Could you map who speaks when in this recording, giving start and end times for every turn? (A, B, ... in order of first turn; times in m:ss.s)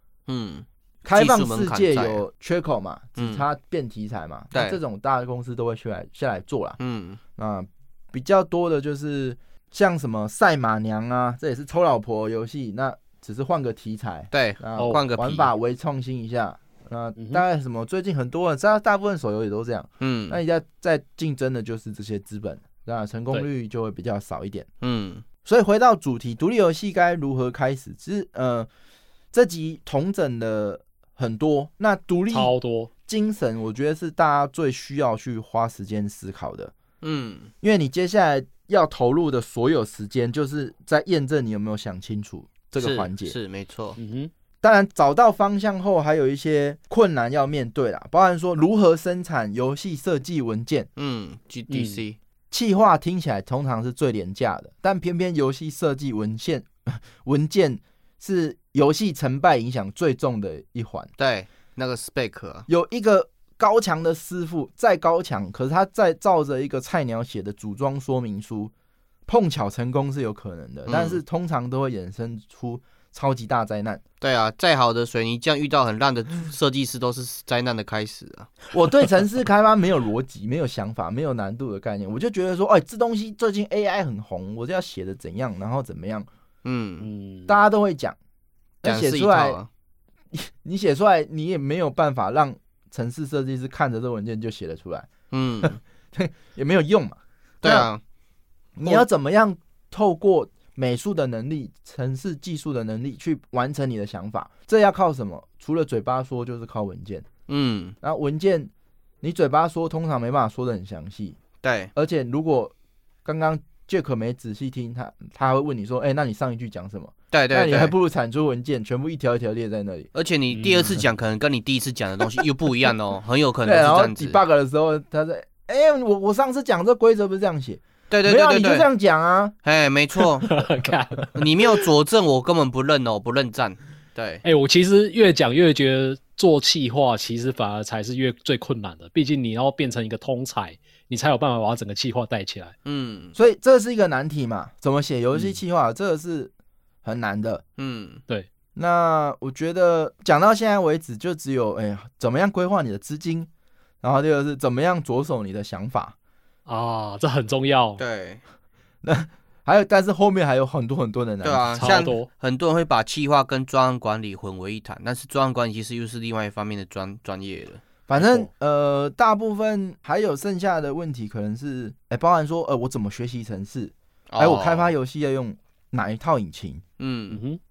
0:00.3-0:02.2 A
0:01.0-0:06.8 B
0:03.2-0:03.4 A
0:04.5-0:04.8 A
0:06.8-0:07.2 A
0:07.4-0:24.7 B
0:14.3-0:15.5 A
0:17.2-0:17.4 C
0:20.0-0:20.4 A
0:24.8-0:25.2 A
0:25.4-0:28.7 B
0:29.3-0:32.5 B
0:32.3-0:32.9 C
0:33.1-0:36.7 B
0:37.0-0:37.5 A
0:37.6-0:43.3 B
0:42.8-0:44.0 A
0:44.0-0:44.3 C
0:44.6-0:50.9 B
0:51.0-0:52.2 A
0:51.7-0:52.0 C
0:52.5-1:01.1 B
1:01.2-1:02.7 A
1:02.7-1:08.7 B
1:09.3-1:14.0 B
1:10.9-1:11.2 A
1:14.2-1:18.7 A
1:18.7-1:26.3 B
1:26.6-1:27.1 A
1:27.0-1:27.6 C
1:27.5-1:28.2 B
1:28.8-1:29.6 B
1:28.8-1:29.7 A
1:30.3-1:37.9 B
1:35.3-1:35.8 A
1:37.6-1:38.0 A
1:38.8-1:47.3 B
1:47.5-1:47.9 A
1:48.0-1:48.7 B
1:49.2-1:51.4 B
1:51.6-1:51.9 A
1:51.9-1:52.7 B
1:53.2-2:00.1 B
1:57.3-1:57.9 A
2:00.1-2:04.4 A
2:00.5-2:01.0 C
2:03.6-2:09.5 B
2:08.1-2:08.9 A
2:09.6-2:10.5 A
2:10.4-2:11.8 C
2:11.3-2:14.4 A
2:14.4-2:22.7 C
2:22.8-2:23.3 A
2:23.4-2:26.5 B
2:27.0-2:27.6 B
2:27.8-2:28.2 A
2:28.8-2:33.5 B
2:34.0-2:36.1 B
2:36.6-2:38.0 C
2:38.0-2:38.4 A
2:39.0-2:41.9 B
2:41.4-2:47.8 A
2:41.8-2:42.3 C
2:48.1-2:56.8 B
2:48.2-2:48.5 C
2:54.3-2:54.9 A
2:57.0-2:57.4 A
2:57.3-2:57.6 C